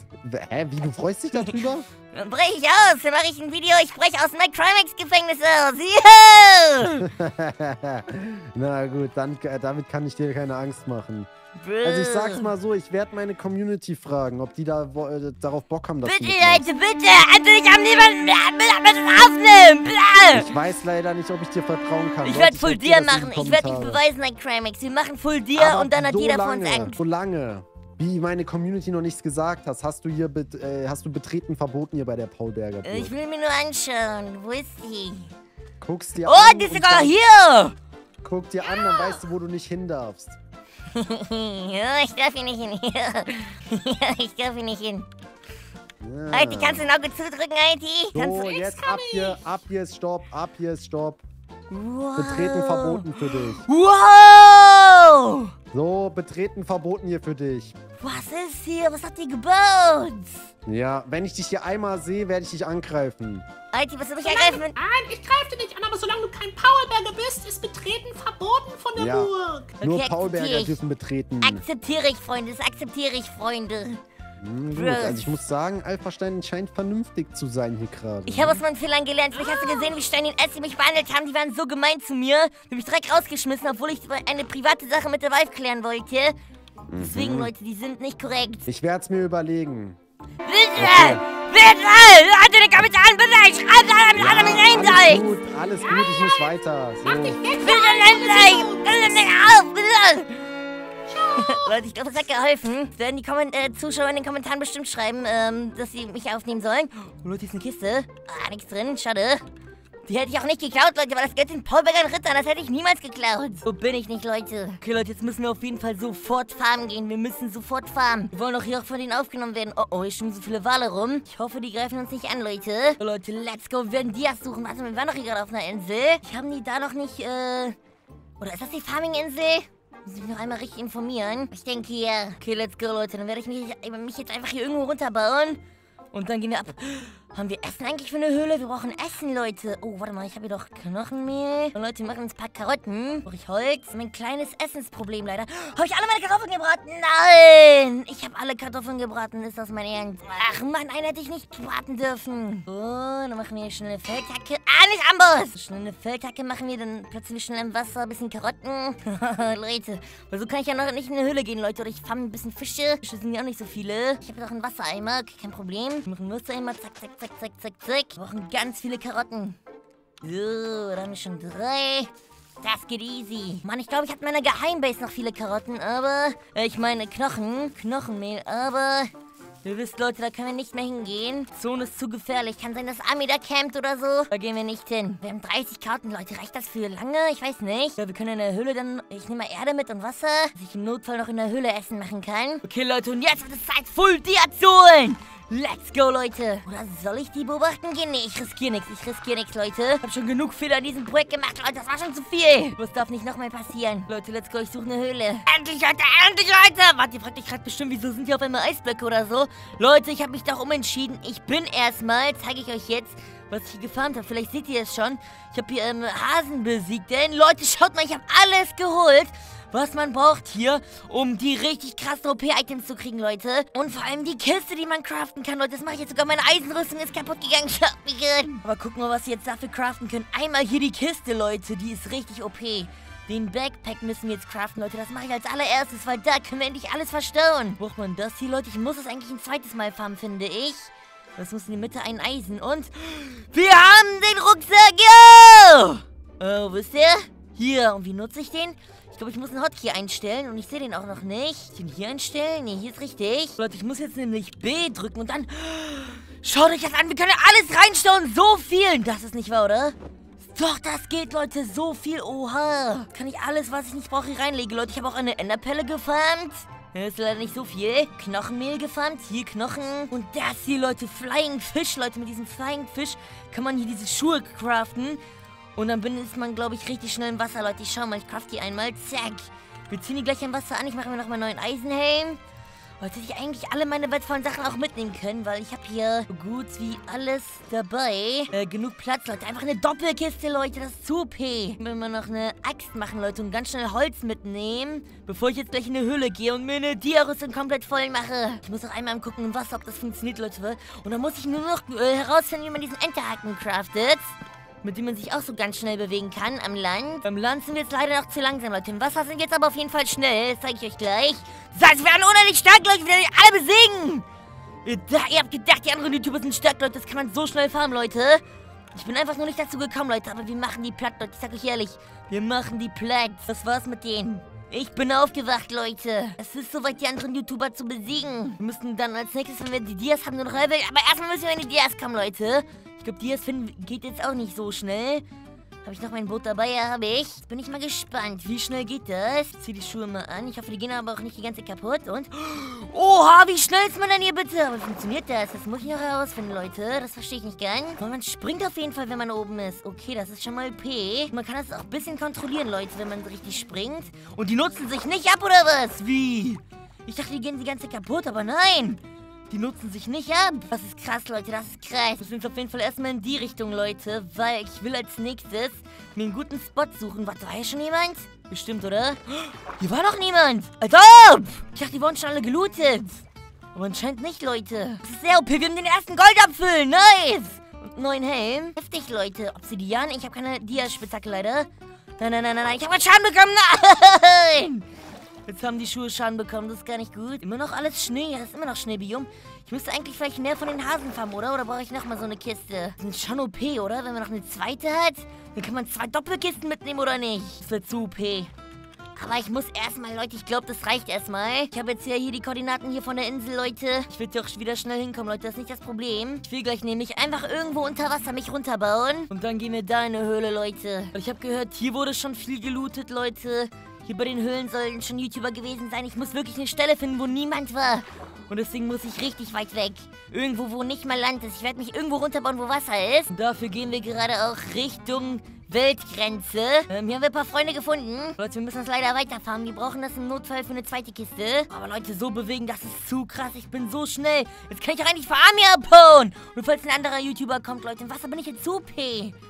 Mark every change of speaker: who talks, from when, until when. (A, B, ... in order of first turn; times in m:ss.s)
0:00.2-0:01.8 A
0:01.3-0:07.1 B
0:07.0-0:11.3 A
0:11.6-0:12.5 B
0:11.8-0:16.6 A
0:16.0-0:20.5 B
0:20.3-0:24.0 A
0:22.2-0:27.0 B
0:25.6-0:33.1 A
0:32.8-0:35.3 B
0:35.8-0:37.2 A
0:36.2-0:37.7 B
0:38.2-0:40.4 A
0:38.6-0:39.2 C
0:40.9-0:45.1 B
0:46.0-0:46.9 A
0:46.3-0:48.5 B
0:48.1-0:51.2 A
0:48.3-0:49.4 C
0:51.7-0:55.5 B
0:52.2-0:53.6 A
0:55.7-0:57.7 A
0:58.0-1:00.5 B
1:00.6-1:03.4 A
1:03.7-1:04.7 B
1:04.2-1:09.7 C
1:09.0-1:11.6 A
1:09.8-1:10.8 B
1:11.4-1:14.0 B
1:14.4-1:18.6 A
1:14.7-1:15.4 B
1:18.3-1:26.4 B
1:19.3-1:20.0 C
1:26.9-1:27.5 A
1:27.0-1:28.7 B
1:28.7-1:30.0 A
1:30.4-1:35.3 B
1:30.8-1:31.2 A
1:34.1-1:37.4 A
1:35.8-1:39.2 C
1:37.5-1:40.4 B
1:41.1-1:41.7 C
1:41.4-1:49.4 B
1:50.1-2:07.8 B
2:08.4-2:15.6 B
2:16.1-2:49.6 B
2:50.2-2:52.1 B
2:52.6-2:59.1 B
2:59.6-4:20.0 B
4:20.5-4:35.2 B
4:35.8-4:42.4 B
4:43.0-5:14.2 B
5:14.8-5:18.4 B
5:18.9-5:35.2 B
5:35.8-6:13.2 B
6:13.7-6:24.8 B
6:25.5-6:38.5 B
6:39.1-7:19.3 B